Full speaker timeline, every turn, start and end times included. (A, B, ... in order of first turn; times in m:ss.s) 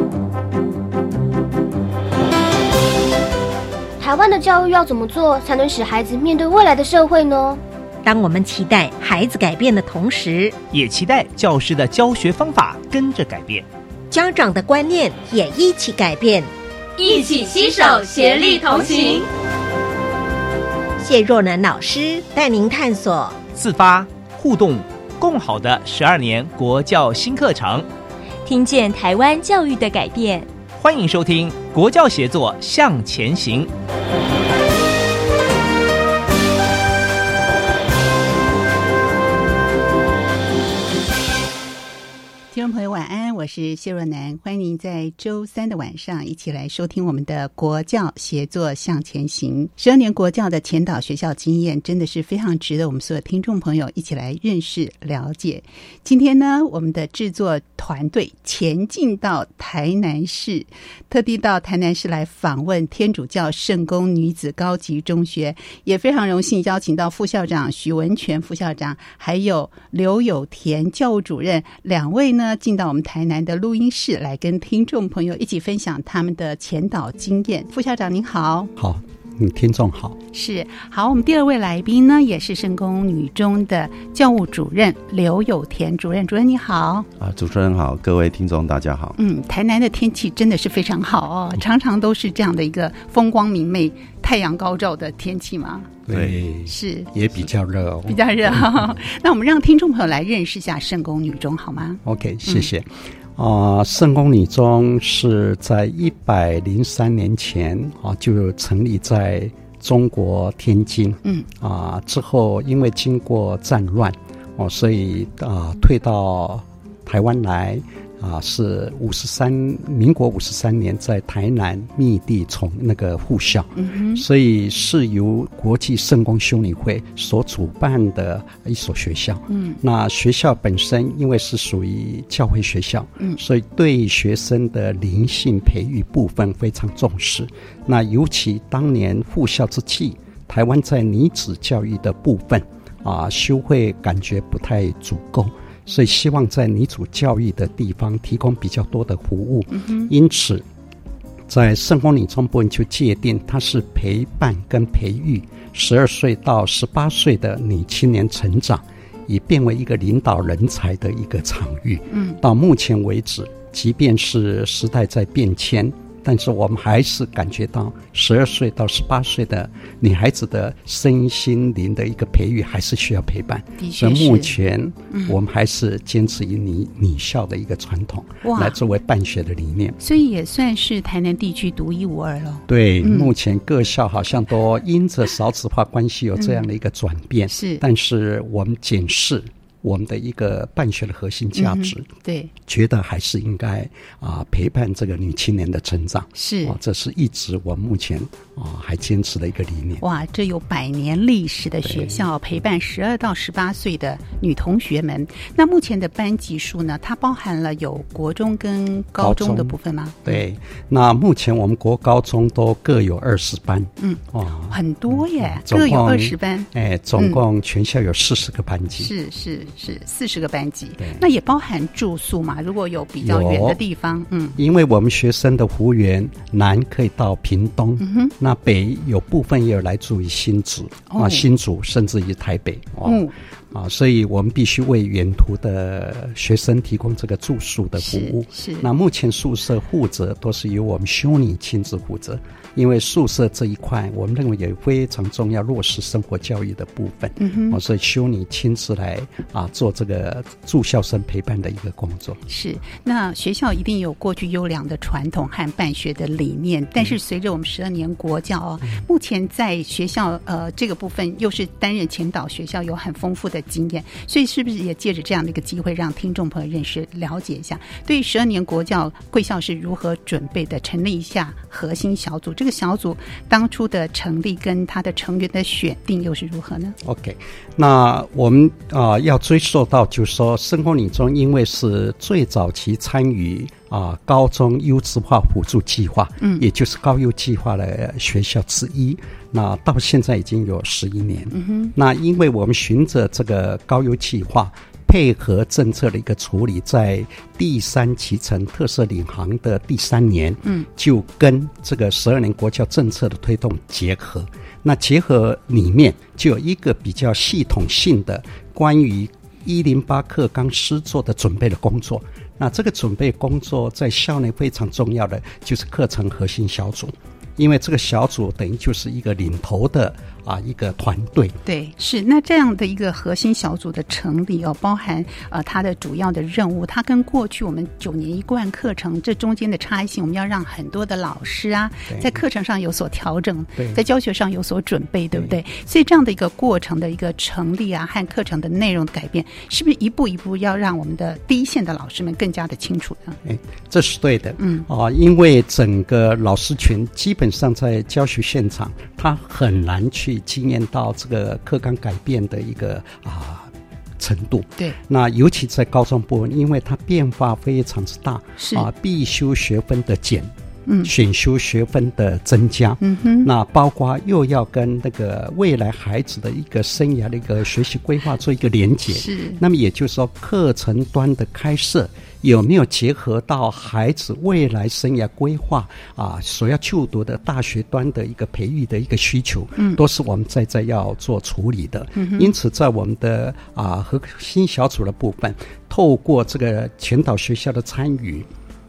0:04.0-0:07.6 A
0:08.0-0:10.6 B
0:10.7-0:13.7 C
0:14.1-0:16.5 B
0:17.0-0:19.3 D
0:21.0-0:23.4 B
0:23.5-0:27.9 C
0:28.5-0:30.5 D
0:30.8-0:33.7 C
0:42.5-1:18.7 E
1:18.8-1:20.2 F
1:20.3-1:27.1 E
1:27.2-1:29.2 G
1:29.2-1:35.9 E
1:36.1-1:38.7 F
1:36.1-1:36.4 G
1:36.7-1:37.1 E
1:38.1-1:42.7 E
1:42.0-2:30.6 F
2:03.8-2:04.2 E
2:09.5-2:09.8 E
2:29.8-2:30.1 E
2:31.5-3:00.0 F
2:42.1-2:42.4 E
2:53.8-2:54.6 E
2:58.4-2:58.8 E
3:00.0-3:03.3 E
3:02.7-3:12.1 F
3:06.4-3:06.7 E
3:07.5-3:07.8 E
3:11.6-3:12.5 E
3:12.6-3:20.0 F
3:16.4-3:16.8 E
3:20.0-3:30.4 E
3:21.8-3:22.2 F
3:29.2-3:39.1 F
3:34.0-3:37.4 E
3:39.0-3:44.6 E
3:43.2-3:43.8 F
3:44.6-4:12.4 F
3:48.0-3:48.3 E
3:51.1-3:51.4 E
3:53.0-3:53.3 E
3:58.0-3:58.9 E
4:07.4-4:07.8 E
4:12.5-4:37.0 E
4:37.0-5:21.6 F
4:51.5-4:51.9 E
5:21.7-5:43.4 E
5:32.1-5:32.4 F
5:33.8-5:34.0 F
5:43.4-6:00.5 F
5:44.6-5:44.9 E
5:58.6-5:58.9 E
6:01.0-6:28.5 F
6:03.0-6:03.5 E
6:09.1-6:09.6 E
6:22.2-6:22.5 E